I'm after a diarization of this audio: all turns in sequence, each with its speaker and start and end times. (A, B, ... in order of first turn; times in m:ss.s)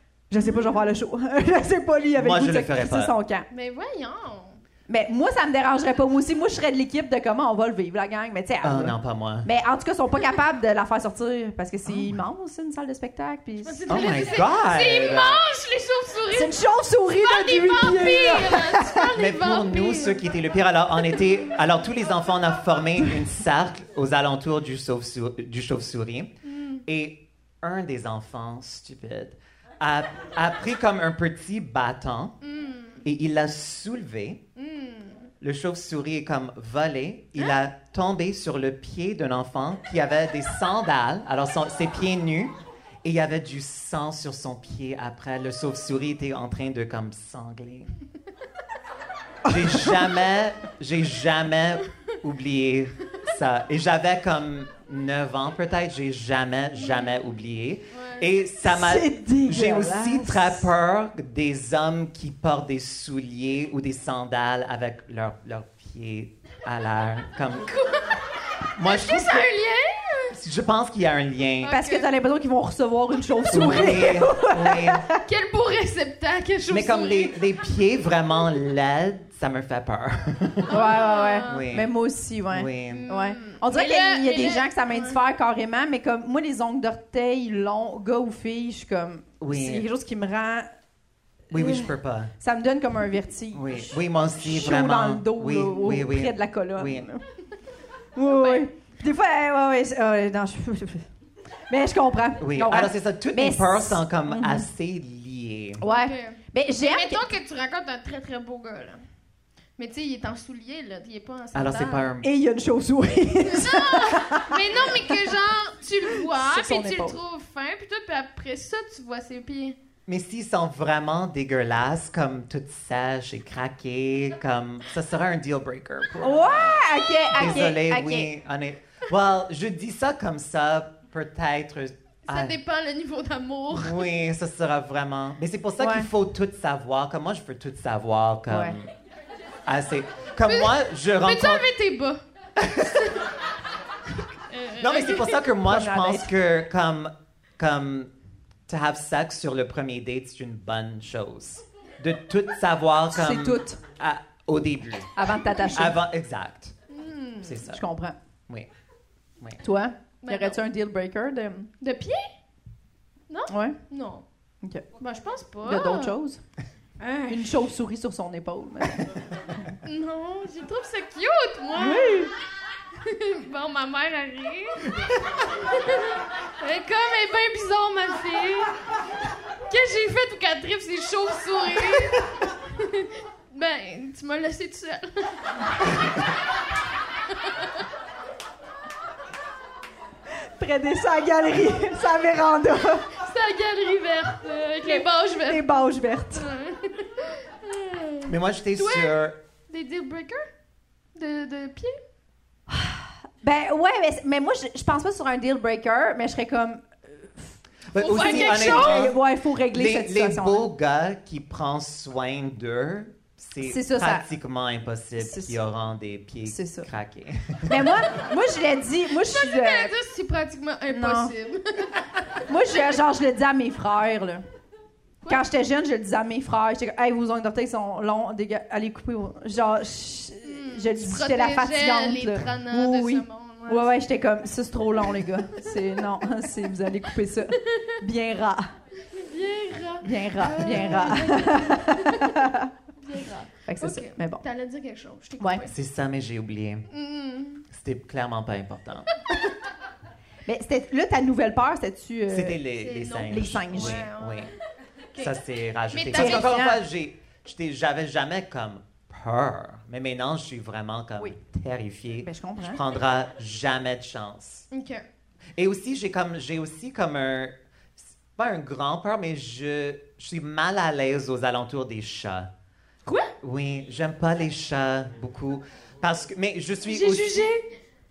0:00.3-0:03.5 A
0:02.2-0:03.1 B
0:03.5-0:04.6 C
0:04.9-0:14.2 A
0:08.6-0:09.5 B
0:11.9-0:12.1 B
0:13.6-0:16.6 C
0:13.9-0:15.4 B
0:16.3-0:19.1 A
0:17.1-0:20.2 C
0:19.2-0:26.3 B
0:26.5-0:26.8 C
0:26.9-0:32.4 B
0:32.4-0:33.0 C
0:33.0-0:34.4 B
0:34.6-0:35.3 C
0:35.4-0:42.5 B
0:43.0-0:47.9 B
0:49.4-0:50.0 A
0:49.4-1:07.7 B
0:56.8-0:57.1 C
0:57.9-0:58.2 C
0:58.6-1:00.6 A
1:07.6-1:10.4 C
1:08.8-1:09.5 B
1:10.3-1:11.8 B
1:11.6-1:12.1 C
1:11.6-1:15.2 A
1:13.5-1:15.0 B
1:15.2-1:17.4 C
1:16.7-1:20.8 B
1:20.7-1:21.7 C
1:20.7-1:30.7 A
1:21.4-1:21.9 B
1:22.5-1:23.1 B
1:22.9-1:25.2 C
1:29.4-1:29.9 B
1:31.5-1:37.2 A
1:31.5-1:32.3 B
1:33.5-1:37.1 B
1:38.1-1:41.0 A
1:38.2-1:38.7 C
1:41.7-1:44.7 A
1:42.4-1:45.8 B
1:45.8-1:47.3 A
1:45.8-1:49.0 C
1:49.8-1:52.1 C
1:51.6-1:52.3 B
1:52.2-1:55.2 A
1:53.4-1:59.8 C
1:56.2-1:57.2 A
2:00.1-2:12.6 B
2:06.2-2:08.3 A
2:12.3-2:14.1 C
2:13.7-2:18.9 B
2:15.8-2:16.1 A
2:18.5-2:18.8 A
2:19.6-2:21.6 B
2:20.5-2:22.2 C
2:22.6-2:23.1 B
2:24.5-2:25.4 C
2:24.8-2:28.1 B
2:25.6-2:26.3 A
2:28.7-2:35.1 B
2:33.1-2:33.8 A
2:35.2-2:36.0 A
2:35.7-2:36.7 B
2:36.9-2:37.6 C
2:37.4-2:37.8 B
2:37.7-2:38.2 A
2:39.6-2:41.7 A
2:40.2-2:40.6 C
2:41.8-2:42.3 C
2:43.3-2:44.2 C
2:43.5-2:43.8 A
2:45.0-2:46.2 C
2:45.6-2:46.4 A
2:47.0-2:47.5 C
2:47.3-2:49.1 A
2:49.8-2:52.3 C
2:51.8-2:52.3 A
2:53.0-2:58.8 C
2:59.7-3:05.5 C
3:10.6-3:13.0 A
3:13.1-3:15.7 C
3:14.8-3:16.5 A
3:16.3-3:20.5 C
3:18.3-3:19.4 B
3:21.1-3:22.0 C
3:22.7-3:30.7 A
3:27.9-3:38.0 B
3:28.0-3:29.1 C
3:33.6-3:34.3 A
3:35.2-3:35.6 A
3:36.4-3:36.9 A
3:37.7-3:39.9 A
3:39.2-3:42.4 C
3:40.9-3:41.3 A
3:42.5-3:44.4 A
3:45.3-3:58.7 A
3:50.4-3:54.0 C
3:57.7-3:57.9 C
3:59.0-4:05.7 C
4:00.0-4:02.7 A
4:03.6-4:04.4 A
4:05.6-4:06.9 B
4:06.9-4:07.6 C
4:07.7-4:09.3 B
4:10.4-4:12.6 A
4:12.3-4:14.5 B
4:12.8-4:14.5 C
4:13.3-4:14.0 A
4:15.2-4:24.6 B
4:15.9-4:16.6 C
4:16.1-4:16.8 A
4:22.2-4:22.8 A
4:24.7-4:25.0 C
4:25.6-4:32.5 B
4:33.0-4:33.3 C
4:33.4-4:37.5 B
4:36.9-4:37.7 C